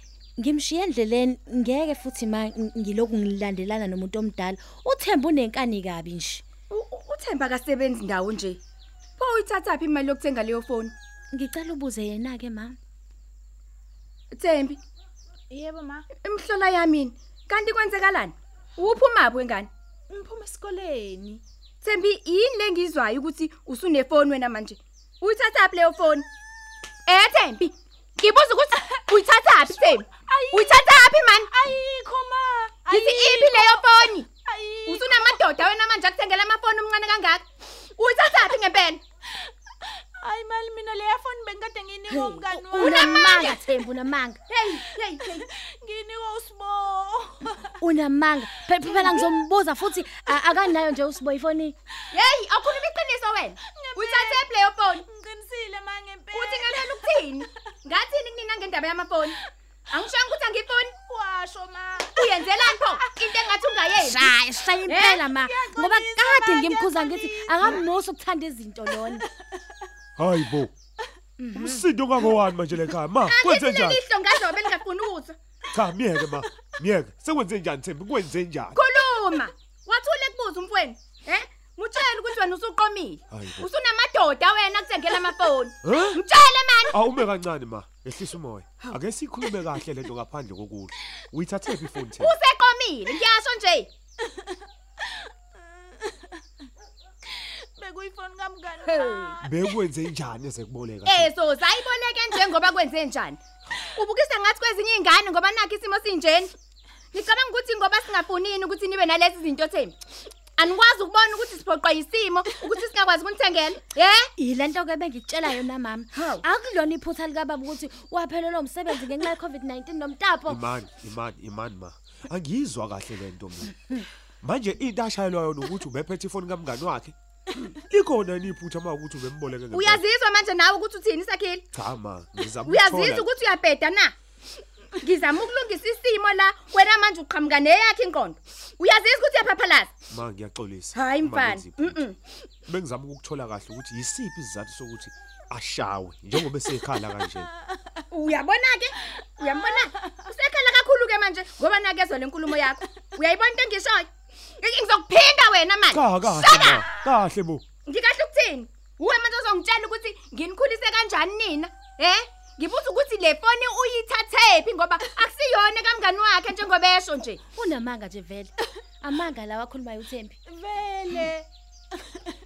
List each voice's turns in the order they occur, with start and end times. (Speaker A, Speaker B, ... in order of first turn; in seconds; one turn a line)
Speaker A: 0.4-6.4
Speaker B: 6.7-8.6
Speaker B: 9.2-10.9
Speaker A: 11.3-12.8
Speaker B: 14.3-14.8
Speaker C: 15.5-16.1
Speaker B: 16.2-19.7
Speaker C: 20.1-21.4
Speaker B: 21.8-26.3
Speaker B: 27.1-31.5
Speaker C: 30.2-30.9
Speaker C: 31.5-35.4
Speaker B: 32.9-34.3
Speaker B: 34.9-39.0
Speaker C: 39.9-43.4
Speaker B: 42.1-43.6
Speaker A: 42.5-44.4
Speaker B: 44.5-45.5
Speaker C: 45.2-47.7
Speaker A: 47.8-51.8
Speaker C: 48.9-49.2
Speaker B: 52.1-55.1
Speaker C: 53.7-54.5
Speaker C: 55.0-57.1
Speaker B: 56.3-59.4
Speaker B: 59.9-60.9
Speaker C: 61.1-67.8
Speaker B: 62.1-64.3
Speaker A: 64.0-69.2
Speaker B: 64.9-65.2
Speaker D: 70.2-70.7
Speaker A: 71.4-71.8
Speaker D: 71.5-74.0
Speaker B: 73.2-75.4
Speaker D: 75.7-78.9
Speaker B: 78.7-87.0
Speaker D: 83.3-83.7
Speaker D: 85.8-86.2
Speaker D: 86.9-92.3
Speaker B: 92.2-93.9
Speaker C: 97.3-99.4
Speaker B: 98.9-99.4
Speaker D: 99.4-101.3
Speaker B: 101.1-106.5
Speaker B: 107.1-110.0
Speaker B: 110.6-114.3
Speaker A: 114.4-120.7
Speaker B: 116.1-116.4
Speaker D: 120.5-123.8
Speaker D: 124.4-130.0
Speaker B: 129.7-131.7
Speaker D: 131.7-133.3
Speaker B: 132.6-134.1
Speaker B: 135.0-139.9
Speaker D: 140.1-142.0
Speaker B: 140.9-142.2
Speaker D: 142.7-147.5
Speaker B: 148.1-156.9
Speaker D: 155.9-157.6
Speaker B: 157.9-167.4
Speaker A: 167.6-170.4
Speaker C: 170.5-171.5